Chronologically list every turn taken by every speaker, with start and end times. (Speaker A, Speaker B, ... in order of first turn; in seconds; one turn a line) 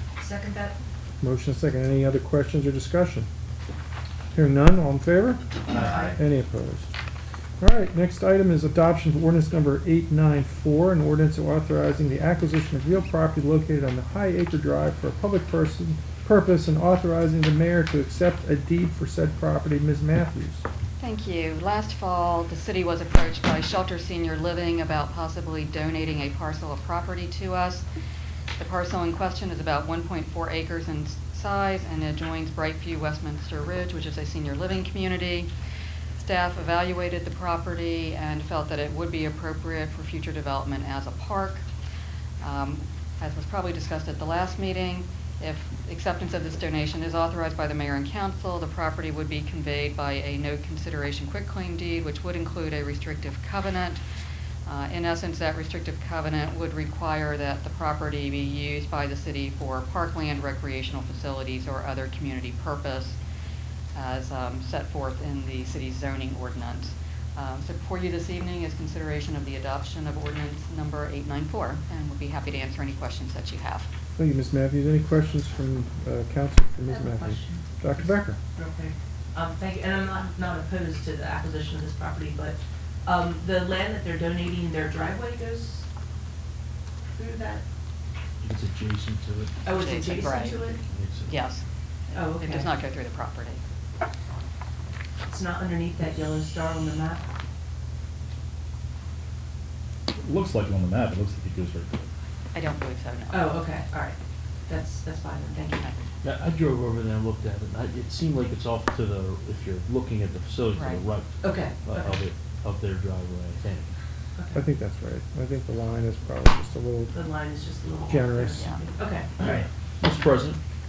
Speaker A: 0.2-0.8
Speaker B: 1.2-3.3
Speaker B: 4.3-6.9
Speaker A: 5.8-6.1
Speaker B: 7.6-20.6
Speaker C: 21.0-27.9
Speaker C: 28.6-35.5
Speaker C: 36.2-41.6
Speaker C: 42.4-54.0
Speaker C: 54.6-63.2
Speaker C: 63.9-73.9
Speaker B: 74.2-78.4
Speaker A: 76.9-85.8
Speaker A: 87.0-87.6
Speaker D: 88.4-89.6
Speaker A: 89.6-90.8
Speaker C: 89.7-90.7
Speaker D: 90.9-91.3
Speaker C: 91.3-91.6
Speaker A: 92.1-92.7
Speaker C: 92.3-93.6
Speaker A: 95.3-97.2
Speaker E: 100.1-102.1
Speaker C: 102.5-103.6
Speaker A: 103.3-105.9
Speaker D: 106.2-113.9
Speaker C: 110.7-111.0
Speaker A: 111.4-112.1
Speaker A: 114.3-114.6
Speaker B: 114.5-117.3
Speaker A: 117.1-119.7
Speaker B: 118.1-118.7
Speaker C: 118.6-118.9
Speaker D: 119.4-120.6